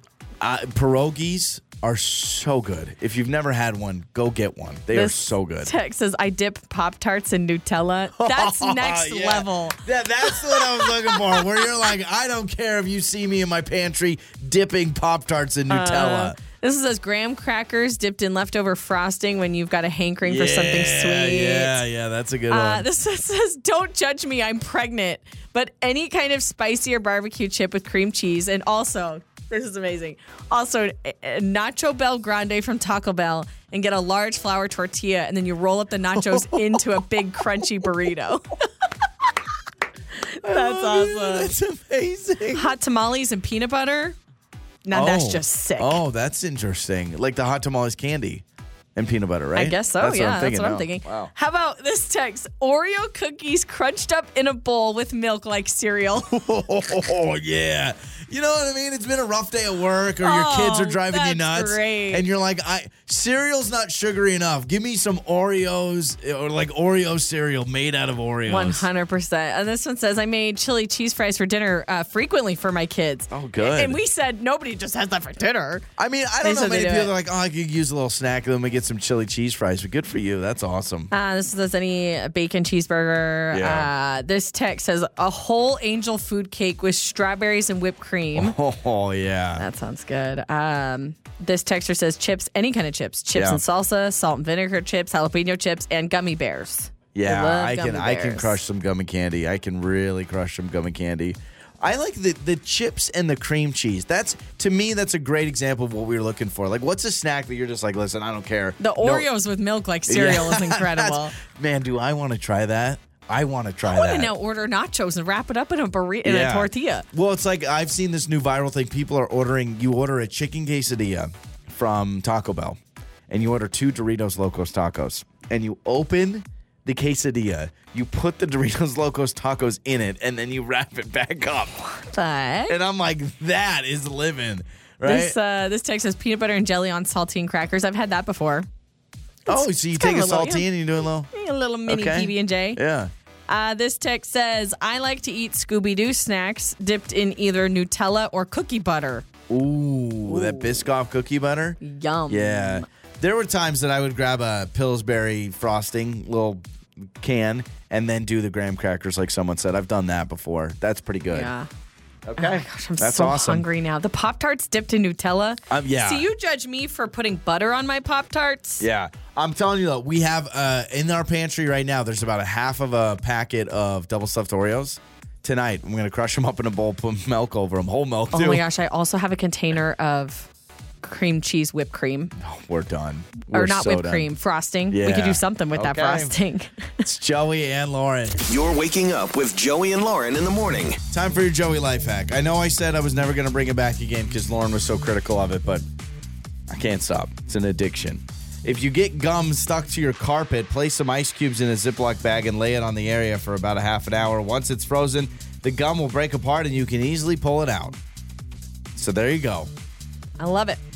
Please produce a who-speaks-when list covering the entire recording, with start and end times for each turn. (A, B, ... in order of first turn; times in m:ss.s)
0:00.4-0:05.7 A
0:04.9-0:11.7 B
0:08.2-0:16.4 A
0:15.7-0:21.8 B
0:20.2-0:22.9 A
0:22.5-0:38.6 B
0:36.1-0:37.9 A
0:40.3-0:41.5 B
0:40.4-0:42.8 A
0:42.5-0:44.2 B
0:44.8-0:46.0 B
0:44.9-0:48.4 A
0:49.0-0:51.3 A
0:49.6-0:56.4 B
0:56.3-1:08.9 A
1:00.2-1:02.2 B
1:08.5-1:15.9 B
1:13.3-1:14.0 A
1:16.0-1:21.1 A
1:16.4-1:17.1 B
1:21.1-1:28.6 B
1:23.5-1:23.9 A
1:28.4-1:29.7 A
1:29.6-1:38.6 B
1:33.3-1:33.6 A
1:37.1-1:49.3 A
1:48.8-1:51.4 B
1:50.1-1:54.3 A
1:53.9-1:57.0 B
1:56.2-2:02.8 A
2:03.3-2:11.7 A
2:11.9-2:12.8 B
2:12.7-2:15.4 A
2:15.0-2:18.7 B
2:19.5-2:21.3 A
2:19.5-2:20.7 B
2:21.3-2:22.8 B
2:21.9-2:23.1 A
2:23.5-2:29.3 B
2:29.5-2:36.6 A
2:30.3-2:30.8 B
2:31.8-2:32.8 B
2:37.2-2:41.5 A
2:41.3-2:41.7 B
2:42.3-2:43.7 A
2:42.4-2:48.9 B
2:45.7-2:46.3 A
2:48.8-2:58.6 A
2:58.3-3:00.5 B
3:01.0-3:02.3 B
3:02.4-3:04.3 A
3:03.5-3:07.0 B
3:04.9-3:06.4 A
3:07.0-3:08.4 A
3:08.5-3:11.0 C
3:11.1-3:15.8 A
3:16.7-3:28.0 A
3:29.0-3:29.7 A
3:30.4-3:30.8 B